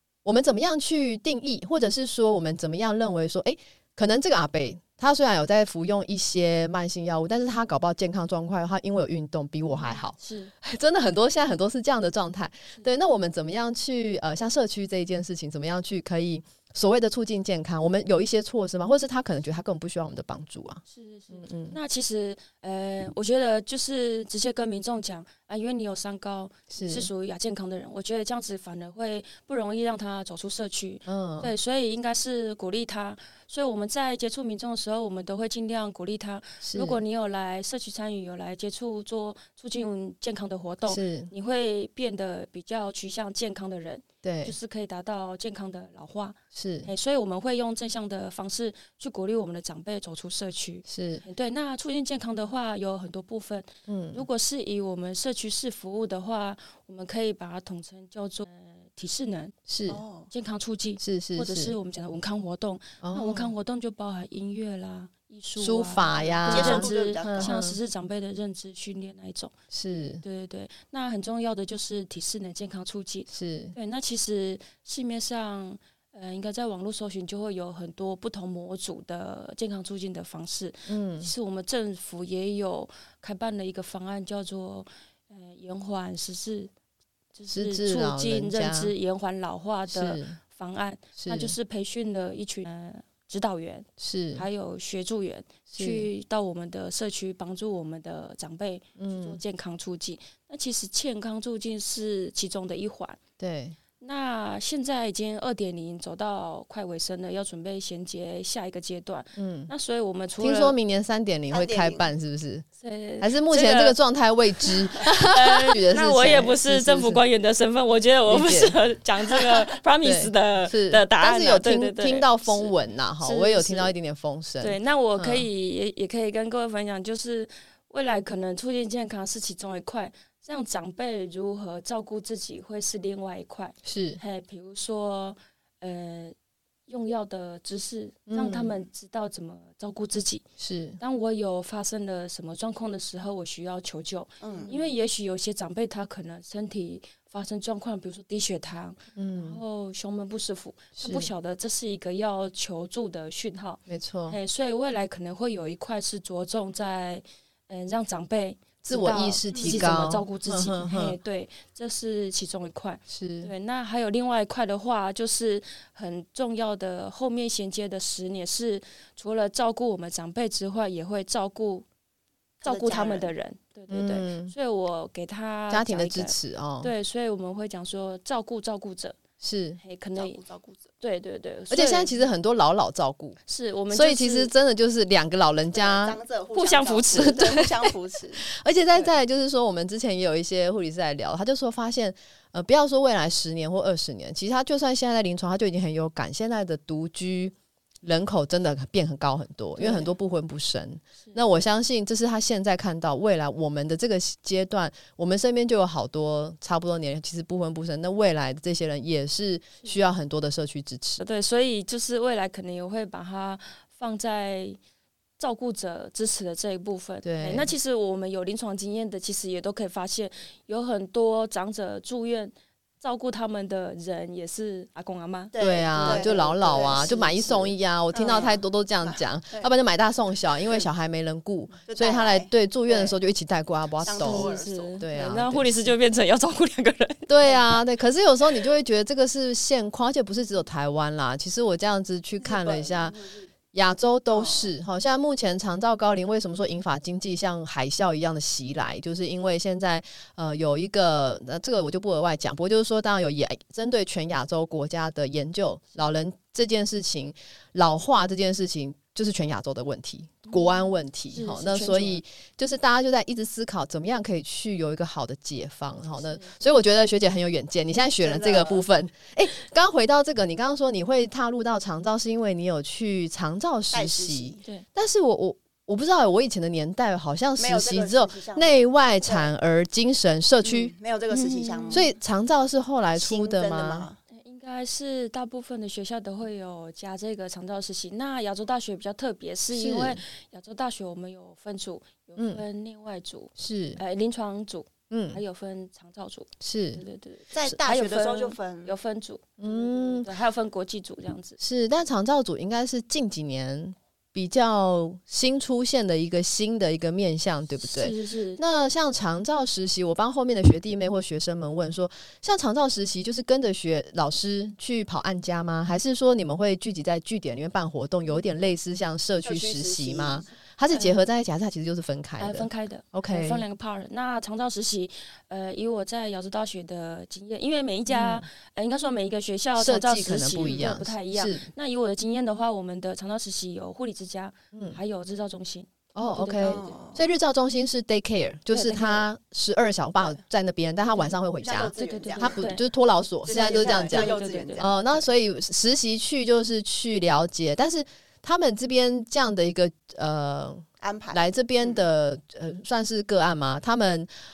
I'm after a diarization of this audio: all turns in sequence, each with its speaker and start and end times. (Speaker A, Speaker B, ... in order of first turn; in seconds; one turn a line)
Speaker A: 0.2-21.8
Speaker B: 10.1-10.5
Speaker B: 20.9-59.5
Speaker A: 26.7-27.1
Speaker A: 31.1-31.5
Speaker A: 36.6-37.0
Speaker A: 40.9-41.3
Speaker A: 44.2-44.5
Speaker A: 46.5-46.9
Speaker A: 50.9-51.2
Speaker A: 53.9-54.2
Speaker A: 59.7-60.0
Speaker C: 59.9-60.3
Speaker B: 60.3-69.5
Speaker A: 61.0-61.7
Speaker A: 63.0-63.5
Speaker A: 65.6-67.8
Speaker C: 66.4-67.5
Speaker A: 69.7-70.2
Speaker B: 70.2-86.7
Speaker A: 73.3-73.7
Speaker A: 80.9-81.3
Speaker B: 87.3-103.2
Speaker A: 87.5-88.9
Speaker A: 89.9-90.4
Speaker A: 91.2-91.5
Speaker A: 94.0-94.4
Speaker A: 95.7-96.1
Speaker A: 99.0-99.4
Speaker A: 103.4-103.8
Speaker B: 104.0-110.7
Speaker A: 109.3-109.7
Speaker A: 110.4-112.6
Speaker C: 111.5-112.1
Speaker B: 112.8-114.0
Speaker A: 113.2-117.2
Speaker B: 114.7-123.9
Speaker A: 118.3-118.8
Speaker A: 120.0-125.5
Speaker B: 124.6-136.3
Speaker A: 133.8-134.2
Speaker B: 136.9-140.4
Speaker A: 138.3-138.7
Speaker A: 140.6-141.0
Speaker B: 141.0-171.8
Speaker C: 144.4-144.8
Speaker A: 149.1-149.6
Speaker A: 151.0-151.3
Speaker A: 153.9-154.4
Speaker A: 158.8-161.2
Speaker C: 159.5-159.8
Speaker A: 163.1-163.5
Speaker B: 172.6-179.2
Speaker C: 172.6-173.3
Speaker A: 173.9-174.5
Speaker A: 175.7-176.9
Speaker A: 179.4-179.8
Speaker B: 179.8-180.4
Speaker C: 180.2-180.9
Speaker B: 181.0-182.2
Speaker A: 181.7-183.4
Speaker B: 183.5-184.5
Speaker A: 183.9-186.2
Speaker C: 185.7-189.1
Speaker B: 186.5-187.7
Speaker A: 187.1-187.7
Speaker A: 188.5-211.2
Speaker B: 199.8-200.1
Speaker B: 211.2-214.8
Speaker B: 215.4-227.1
Speaker A: 217.2-217.7
Speaker C: 225.5-229.7
Speaker A: 225.6-235.9
Speaker C: 231.8-233.2
Speaker C: 234.0-235.0
Speaker B: 234.2-237.5
Speaker A: 237.3-243.2
Speaker C: 242.4-243.5
Speaker A: 243.7-280.9
Speaker C: 244.3-244.7
Speaker B: 261.3-262.2
Speaker B: 266.2-266.6
Speaker C: 268.2-268.8
Speaker C: 273.9-274.6
Speaker C: 277.6-279.5
Speaker C: 280.6-282.1
Speaker B: 281.3-282.1
Speaker A: 281.9-284.1
Speaker C: 283.1-284.2
Speaker B: 284.3-301.6
Speaker A: 289.7-290.2
Speaker A: 292.4-292.6
Speaker A: 293.6-294.0
Speaker A: 295.1-295.4
Speaker A: 296.6-297.0
Speaker C: 297.5-298.9
Speaker A: 299.6-300.3
Speaker A: 301.6-323.6
Speaker B: 307.8-308.6
Speaker C: 319.4-320.5
Speaker B: 320.9-321.2
Speaker B: 322.4-337.0
Speaker A: 328.1-328.4
Speaker A: 329.8-331.6
Speaker C: 330.6-330.9
Speaker A: 334.7-335.0
Speaker A: 336.1-354.3
Speaker C: 336.6-337.3
Speaker B: 338.7-339.2
Speaker C: 341.6-342.6
Speaker B: 342.0-342.8
Speaker C: 343.4-345.2
Speaker B: 343.5-344.9
Speaker C: 351.0-352.0